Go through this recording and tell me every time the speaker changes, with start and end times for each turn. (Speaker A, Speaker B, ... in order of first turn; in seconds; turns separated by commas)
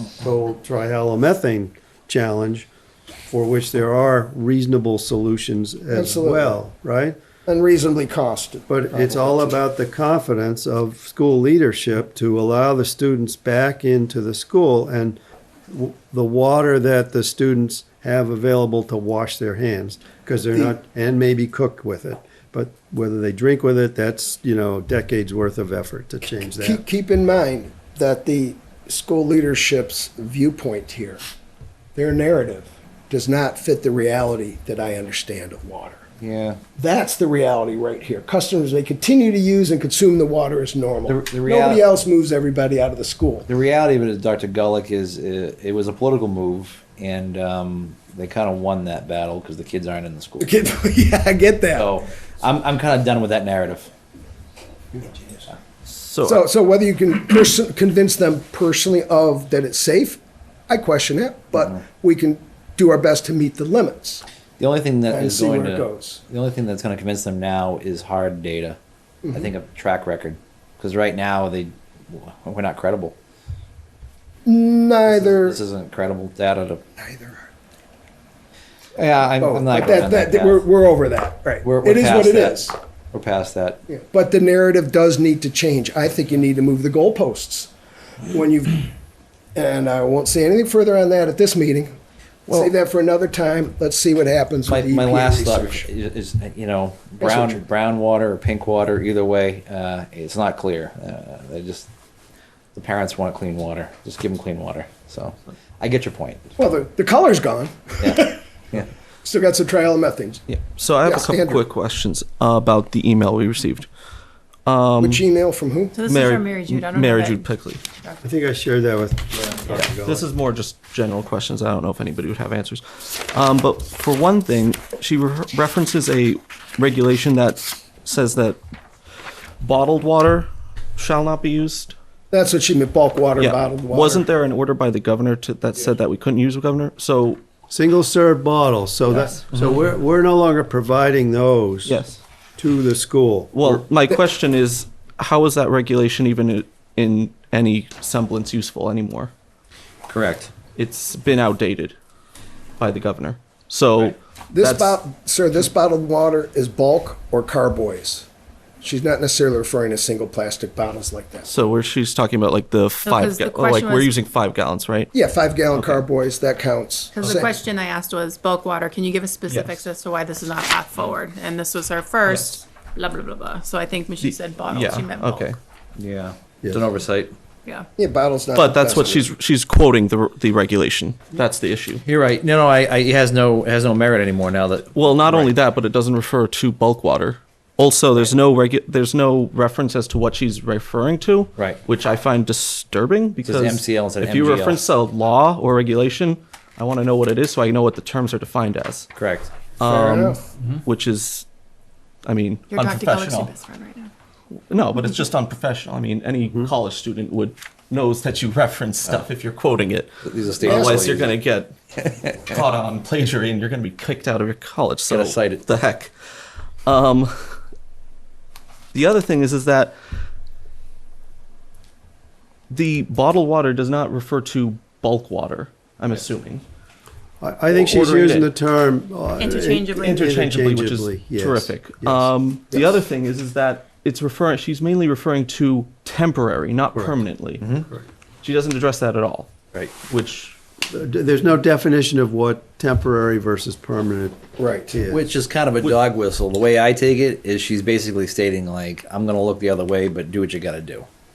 Speaker A: 0.1-2.7, Speaker A: 3.3-7.2, Speaker B: 5.9-6.6, Speaker B: 7.5-9.6, Speaker A: 8.7-26.8, Speaker B: 26.6-31.2, Speaker B: 31.9-36.0, Speaker C: 36.2-36.6, Speaker B: 36.8-43.5, Speaker C: 41.1-41.9, Speaker C: 43.5-50.5, Speaker B: 50.4-51.9, Speaker C: 51.8-53.9, Speaker B: 54.9-55.4, Speaker D: 55.9-56.4, Speaker B: 56.2-64.2, Speaker C: 64.6-68.8, Speaker B: 65.1-66.2, Speaker B: 69.2-69.5, Speaker C: 69.3-73.1, Speaker B: 74.4-75.6, Speaker C: 75.1-76.8, Speaker B: 77.0-77.5, Speaker C: 78.9-80.6, Speaker B: 79.3-82.8, Speaker C: 81.6-83.8, Speaker B: 83.9-87.7, Speaker B: 88.3-88.9, Speaker B: 89.5-92.0, Speaker B: 92.5-95.9, Speaker C: 94.7-101.9, Speaker B: 97.2-97.6, Speaker C: 102.7-106.5, Speaker B: 106.6-108.4, Speaker C: 108.0-108.9, Speaker B: 109.2-110.5, Speaker D: 110.5-113.9, Speaker B: 111.0-111.6, Speaker D: 114.7-115.2, Speaker B: 115.0-115.9, Speaker E: 115.9-118.2, Speaker D: 116.0-117.8, Speaker A: 118.2-120.2, Speaker D: 119.7-128.6, Speaker D: 129.6-131.9, Speaker B: 132.3-134.2, Speaker D: 133.4-137.4, Speaker A: 137.7-142.0, Speaker D: 141.8-142.2, Speaker A: 142.6-143.8, Speaker D: 143.5-149.3, Speaker C: 150.1-150.5, Speaker D: 150.8-151.9, Speaker D: 152.8-155.0, Speaker B: 154.5-158.3, Speaker B: 158.8-161.5, Speaker D: 161.4-165.1, Speaker E: 163.0-164.1, Speaker B: 165.1-167.5, Speaker D: 165.7-166.1, Speaker E: 167.1-175.5, Speaker D: 169.5-169.8, Speaker D: 174.2-175.6, Speaker C: 175.9-177.3, Speaker B: 178.0-179.3, Speaker D: 178.5-182.0, Speaker C: 182.0-185.5, Speaker D: 184.9-199.1, Speaker C: 193.4-194.8, Speaker C: 199.1-199.7, Speaker D: 199.8-201.4, Speaker B: 199.8-200.4, Speaker D: 202.2-203.5, Speaker E: 202.7-204.1, Speaker D: 204.7-211.7, Speaker C: 210.2-211.3, Speaker B: 210.6-211.0, Speaker D: 212.3-216.1, Speaker C: 215.1-215.7, Speaker D: 216.8-217.6, Speaker D: 218.9-219.9, Speaker D: 222.7-226.6, Speaker A: 227.4-232.3, Speaker D: 227.7-228.5, Speaker E: 229.4-230.2, Speaker D: 229.7-237.7, Speaker A: 236.9-237.2, Speaker C: 237.6-237.9, Speaker D: 238.4-240.6, Speaker A: 240.9-245.2, Speaker B: 244.6-245.0, Speaker C: 245.1-251.1